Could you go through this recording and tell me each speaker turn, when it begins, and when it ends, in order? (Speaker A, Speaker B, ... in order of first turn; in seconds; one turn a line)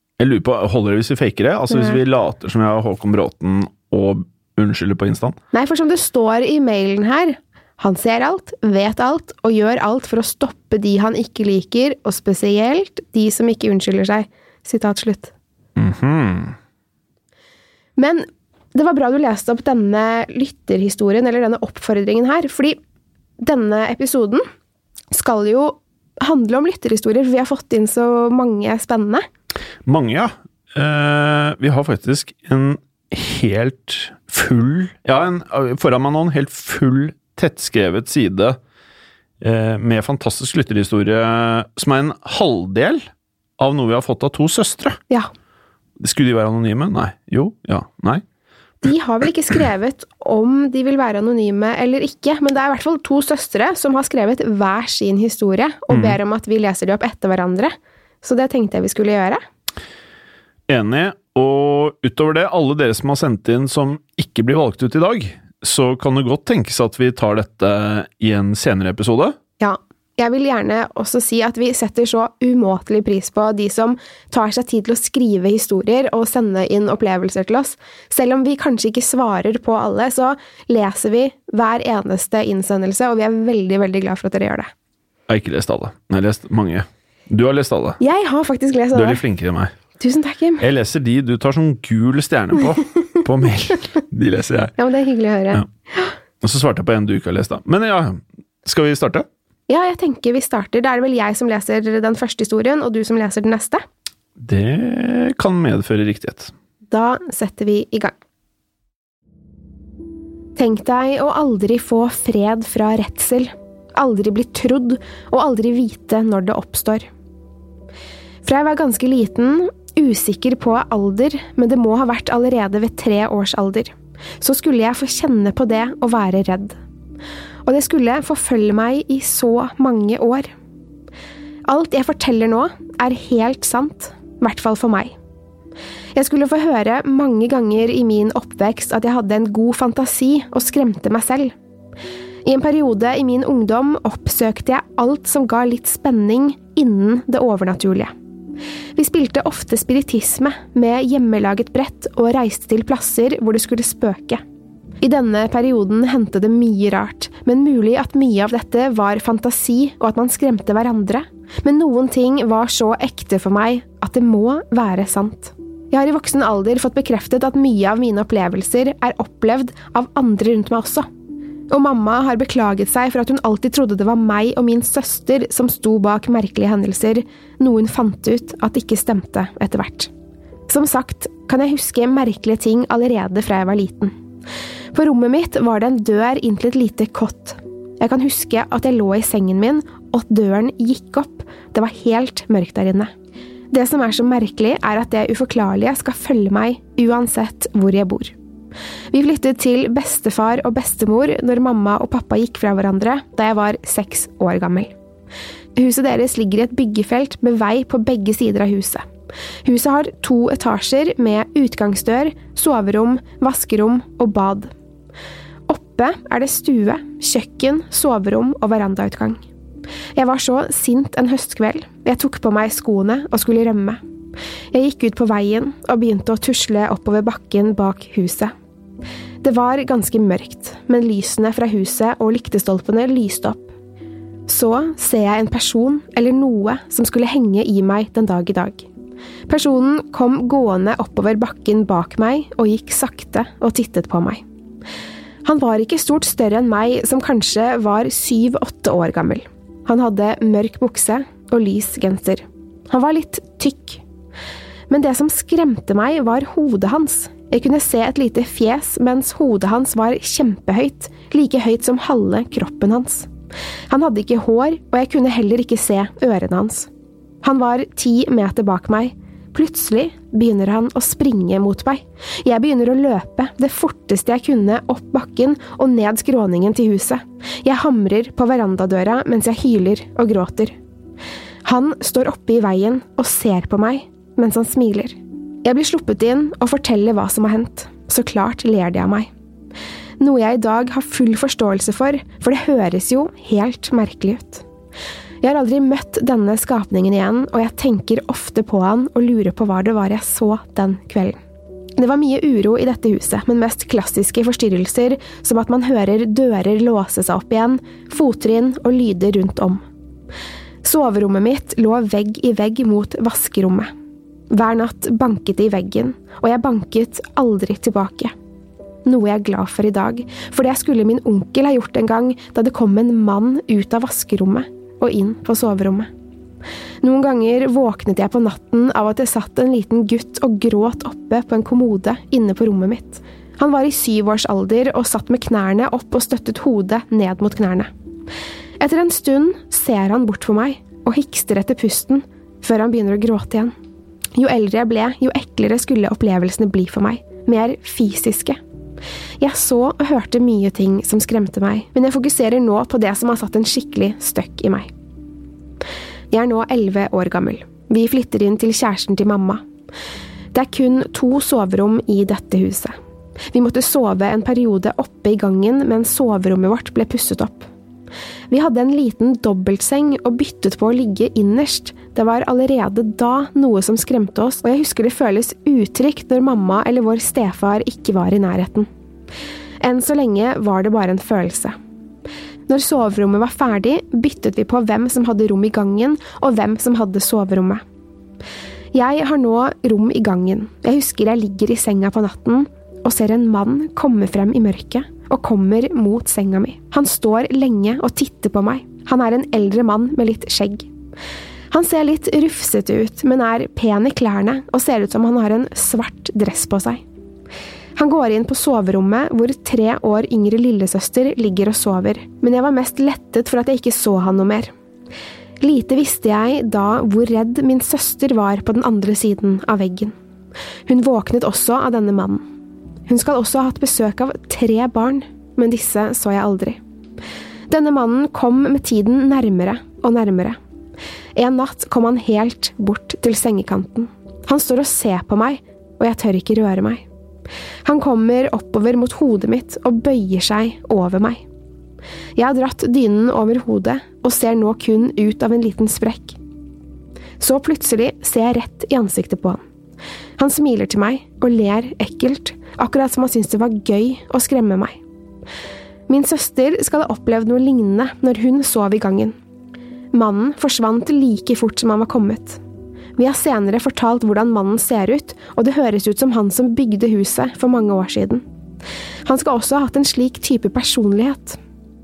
Speaker A: 0.2-5.4
Speaker B: 1.7-2.0
Speaker B: 5.5-15.3
Speaker A: 15.8-16.5
Speaker B: 18.0-22.8
Speaker B: 23.4-24.4
Speaker B: 25.1-29.2
Speaker A: 29.9-38.6
Speaker A: 39.4-43.0
Speaker A: 43.6-45.0
Speaker A: 46.0-48.2
Speaker B: 48.8-59.4
Speaker A: 55.9-56.2
Speaker A: 60.7-69.3
Speaker B: 69.6-84.7
Speaker A: 85.3-88.0
Speaker B: 88.0-89.2
Speaker A: 88.9-89.7
Speaker B: 90.0-90.6
Speaker A: 90.6-94.7
Speaker B: 94.8-96.1
Speaker A: 96.4-99.2
Speaker B: 99.7-103.8
Speaker A: 104.4-106.5
Speaker B: 106.9-108.1
Speaker B: 110.5-117.1
Speaker B: 118.4-126.8
Speaker B: 127.6-130.5
Speaker B: 131.6-135.1
Speaker B: 136.2-141.5
Speaker B: 142.4-148.1
Speaker B: 148.9-154.4
Speaker B: 155.0-171.1
Speaker B: 171.7-180.1
Speaker B: 180.7-184.1
Speaker B: 184.9-193.1
Speaker B: 193.7-198.3
Speaker B: 199.1-204.9
Speaker B: 205.8-209.0
Speaker B: 209.6-214.7
Speaker B: 215.7-219.4
Speaker B: 220.2-224.0
Speaker B: 224.7-228.5
Speaker B: 229.4-233.7
Speaker B: 234.5-238.8
Speaker B: 239.5-244.4
Speaker B: 245.4-254.0
Speaker B: 254.9-263.3
Speaker B: 263.9-266.9
Speaker B: 267.4-280.7
Speaker B: 281.6-289.3
Speaker B: 290.2-294.6
Speaker B: 295.4-301.4
Speaker B: 302.0-309.8
Speaker B: 310.8-313.9
Speaker B: 314.5-318.3
Speaker B: 319.0-326.1
Speaker B: 327.0-337.9
Speaker B: 338.8-343.7
Speaker B: 344.4-348.6
Speaker B: 349.4-354.9
Speaker B: 356.3-359.6
Speaker B: 360.5-362.9
Speaker B: 363.5-367.7
Speaker B: 368.5-378.9
Speaker B: 379.8-381.8
Speaker B: 382.7-387.8
Speaker B: 388.9-400.9
Speaker B: 401.7-407.0
Speaker B: 407.9-414.7
Speaker B: 415.6-420.1
Speaker B: 420.9-422.4
Speaker B: 423.1-426.8
Speaker B: 427.7-430.6
Speaker B: 431.4-437.0
Speaker B: 437.8-441.4
Speaker B: 442.4-446.4
Speaker B: 447.4-449.6
Speaker B: 450.4-455.0
Speaker B: 456.1-459.3
Speaker B: 460.1-462.6
Speaker B: 463.2-468.4
Speaker B: 469.2-471.6